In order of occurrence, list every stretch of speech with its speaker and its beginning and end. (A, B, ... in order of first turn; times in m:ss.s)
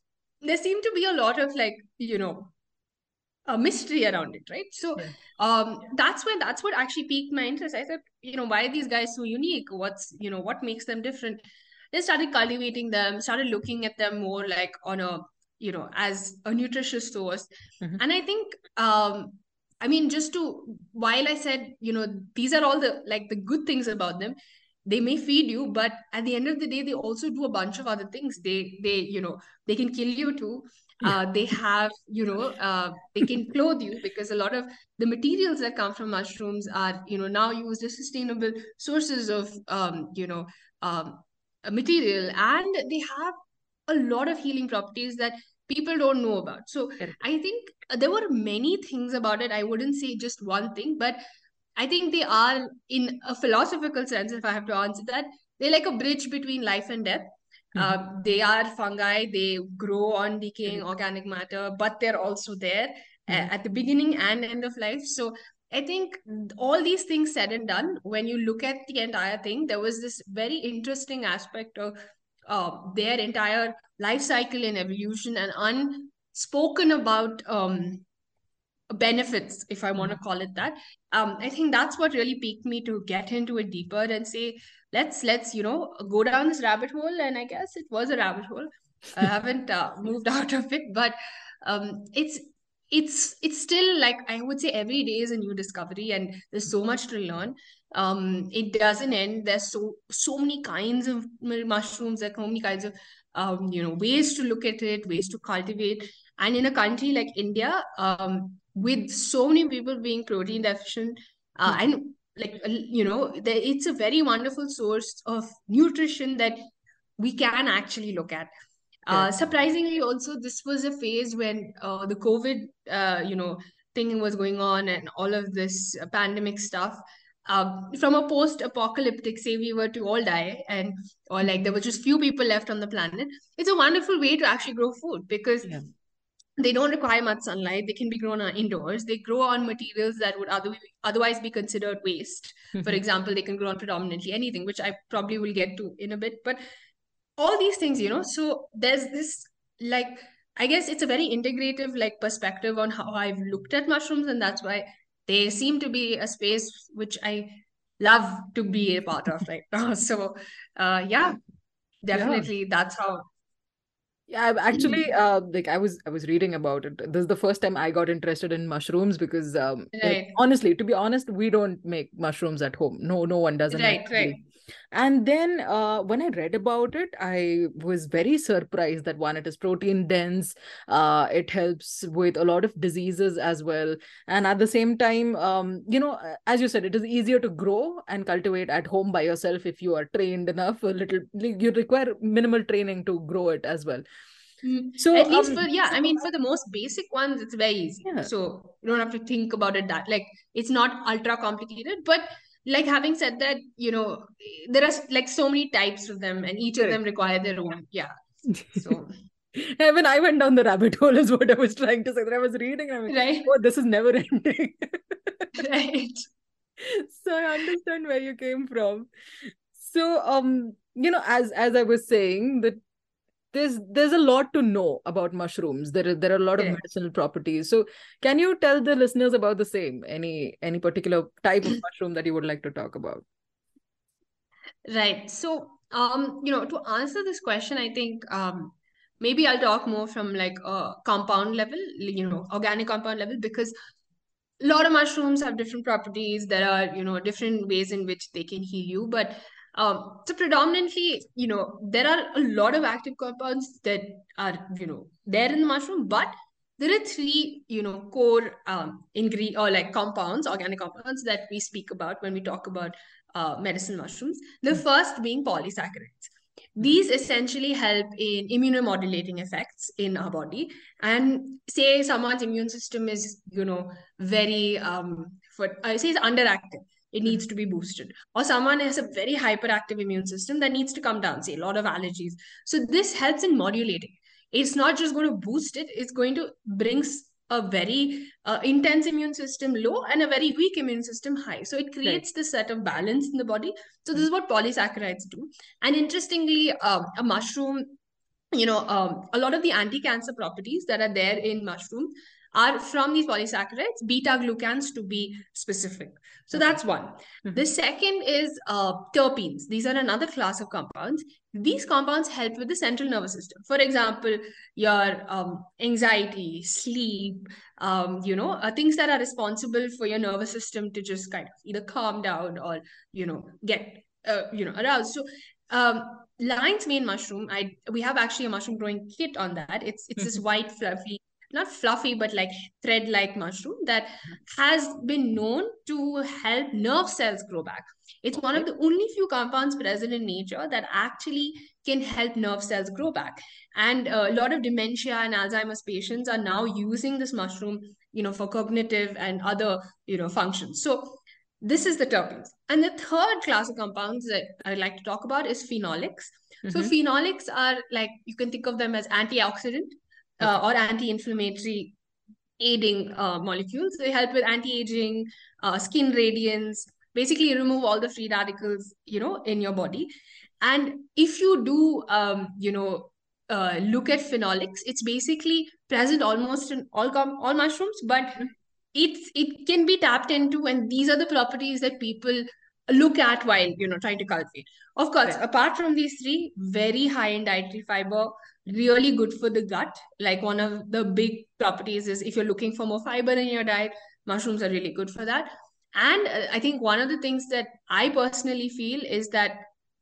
0:00.4-0:02.5 A
0:03.5-0:43.4 A
0:43.9-0:51.2 A
0:51.8-1:11.9 A
1:12.5-1:18.0 A
1:18.9-1:56.7 A
1:57.2-1:58.5 A
1:59.1-2:15.7 A
2:16.6-2:26.6 A
2:22.8-2:23.0 B
2:27.4-2:41.4 A
2:42.0-2:43.2 A
2:42.1-2:42.5 B
2:44.3-2:54.4 B
2:44.7-2:45.0 A
2:49.9-2:50.4 A
2:53.7-2:54.4 A
2:54.9-3:14.0 B
3:14.6-3:28.1 A
3:15.0-3:16.1 B
3:18.0-3:18.3 B
3:28.6-3:28.9 B
3:28.7-3:29.2 A
3:29.6-3:35.5 B
3:33.1-3:33.5 A
3:35.6-3:36.2 A
3:36.8-3:42.8 B
3:43.5-3:53.2 B
3:54.9-4:03.7 A
4:04.6-4:58.0 A
4:58.5-6:02.0 A
5:06.5-5:06.8 B
5:38.4-5:38.6 B
5:56.6-5:56.9 B
6:02.6-6:10.1 A
6:10.6-6:39.7 A